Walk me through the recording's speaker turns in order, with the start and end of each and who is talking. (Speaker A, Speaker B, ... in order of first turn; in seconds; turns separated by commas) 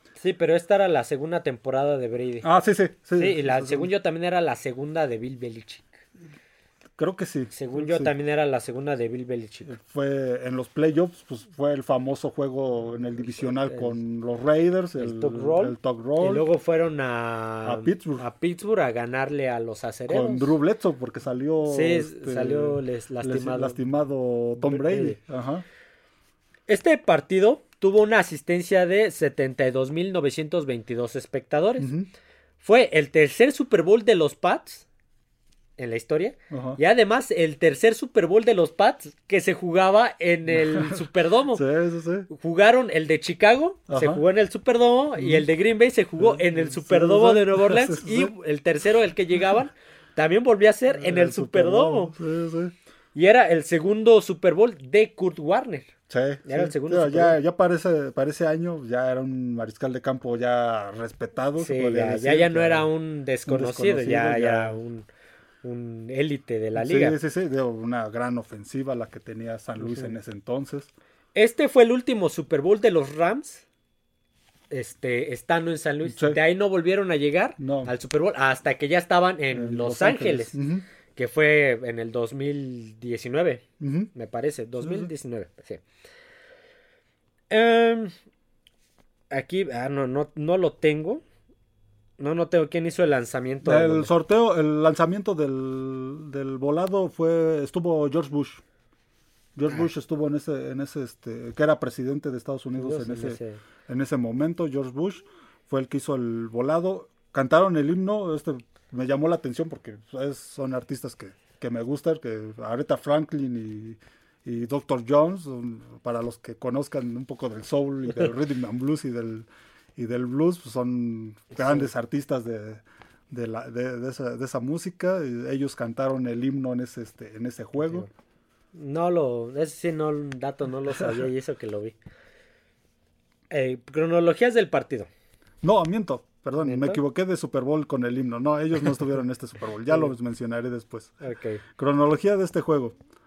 Speaker A: 0.1-2.5, Speaker B: 2.4-3.9, Speaker A: 3.2-6.0, Speaker B: 7.0-8.1, Speaker A: 7.5-9.7, Speaker B: 9.7-16.4, Speaker A: 13.4-14.0, Speaker A: 15.0-20.6, Speaker B: 17.6-18.2, Speaker B: 20.1-25.6, Speaker A: 21.6-23.8, Speaker A: 24.6-25.1, Speaker A: 26.7-31.9, Speaker B: 31.8-32.1, Speaker A: 32.6-34.9, Speaker A: 35.8-41.6, Speaker B: 36.5-36.8, Speaker B: 40.5-42.3, Speaker A: 42.3-52.1, Speaker B: 43.9-44.2, Speaker B: 45.2-45.5, Speaker B: 46.2-48.3, Speaker B: 50.9-52.7, Speaker A: 53.1-55.9, Speaker B: 56.1-62.9, Speaker A: 56.5-57.4, Speaker A: 61.6-65.1, Speaker B: 63.5-64.8, Speaker A: 65.6-67.2, Speaker B: 66.8-70.9, Speaker A: 69.8-70.1, Speaker A: 71.3-73.6, Speaker A: 74.7-80.5, Speaker B: 76.0-76.4, Speaker B: 77.6-77.9, Speaker B: 79.5-80.8, Speaker A: 81.1-85.8, Speaker B: 83.8-84.1, Speaker B: 84.8-85.1, Speaker A: 87.5-88.1, Speaker A: 89.3-91.2, Speaker A: 92.2-94.1, Speaker B: 93.6-98.6, Speaker B: 99.5-128.1, Speaker A: 102.8-103.6, Speaker A: 121.5-121.9, Speaker A: 127.8-128.1, Speaker A: 128.7-131.9, Speaker B: 131.0-131.2, Speaker A: 133.5-135.1, Speaker B: 135.6-141.2, Speaker A: 136.6-137.0, Speaker A: 141.2-141.6, Speaker B: 141.8-142.9